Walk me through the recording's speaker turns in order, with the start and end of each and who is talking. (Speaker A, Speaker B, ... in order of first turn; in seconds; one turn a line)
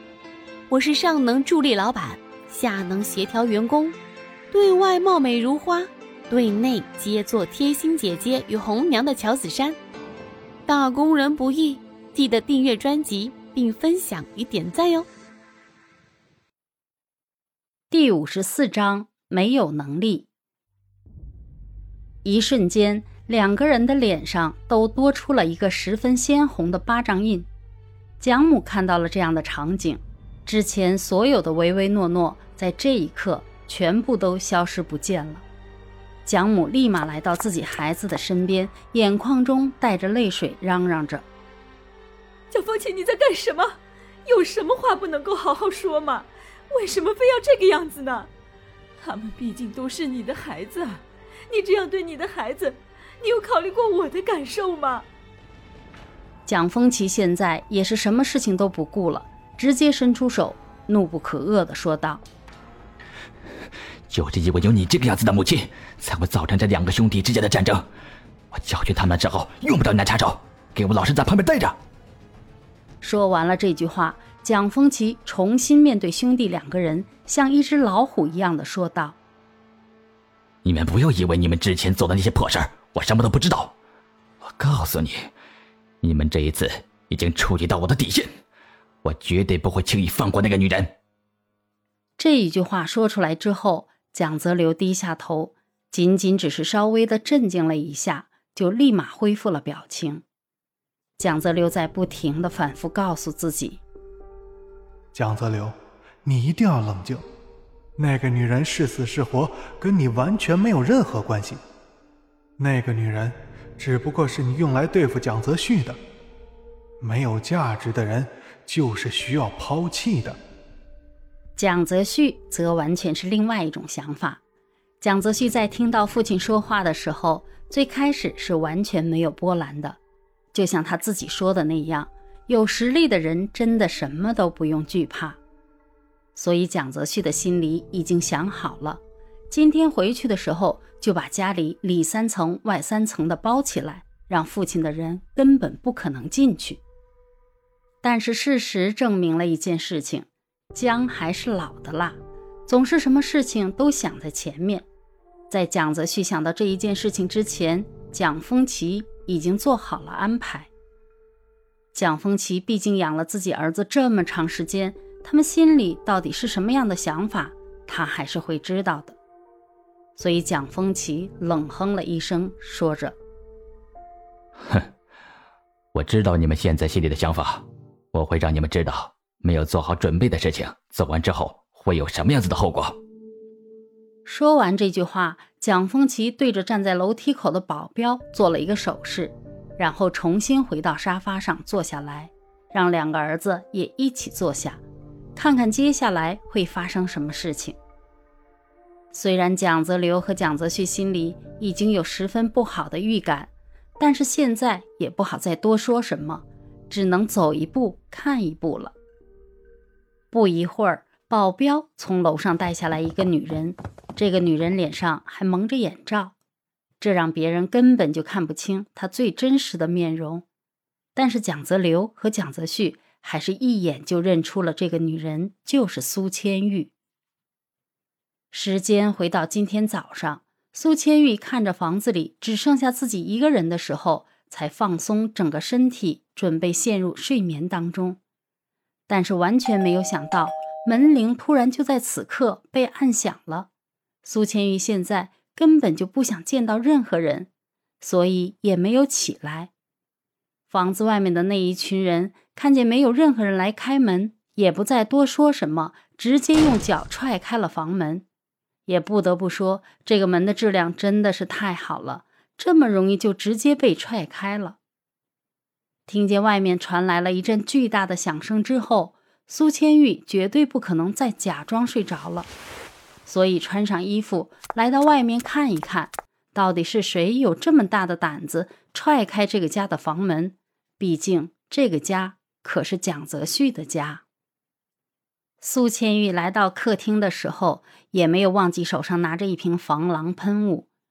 Speaker A: 0.7-4.0
Speaker A: 4.5-9.8
Speaker A: 10.7-15.1
Speaker B: 17.9-20.3
Speaker B: 22.2-27.5
Speaker B: 28.2-35.4
Speaker B: 36.3-41.3
Speaker C: 42.5-48.3
Speaker C: 49.0-55.1
Speaker B: 56.5-62.2
Speaker D: 64.1-67.9
Speaker D: 68.5-71.8
Speaker B: 73.0-79.2
Speaker D: 80.6-83.8
Speaker D: 84.4-85.3
Speaker D: 86.0-88.3
Speaker D: 89.0-91.0
Speaker B: 92.2-100.2
Speaker B: 101.2-103.8
Speaker E: 105.1-105.7
Speaker E: 106.2-107.2
Speaker E: 108.0-111.6
Speaker E: 112.6-116.0
Speaker E: 117.0-120.4
Speaker B: 121.6-124.4
Speaker B: 125.0-130.0
Speaker B: 130.5-135.4
Speaker B: 136.3-146.8
Speaker B: 148.0-154.9
Speaker B: 155.5-160.7
Speaker B: 161.9-169.2
Speaker B: 170.2-173.2
Speaker D: 175.9-183.0
Speaker B: 184.3-194.8
Speaker B: 195.4-197.8
Speaker B: 199.1-208.9
Speaker B: 210.3-216.3
Speaker B: 217.0-220.4
Speaker B: 221.2-226.9
Speaker B: 228.5-238.2
Speaker B: 239.1-243.7
Speaker B: 244.2-247.5
Speaker B: 248.0-249.7
Speaker B: 250.7-258.2
Speaker B: 258.9-264.8
Speaker B: 266.1-272.5
Speaker B: 273.3-284.2
Speaker B: 285.6-290.9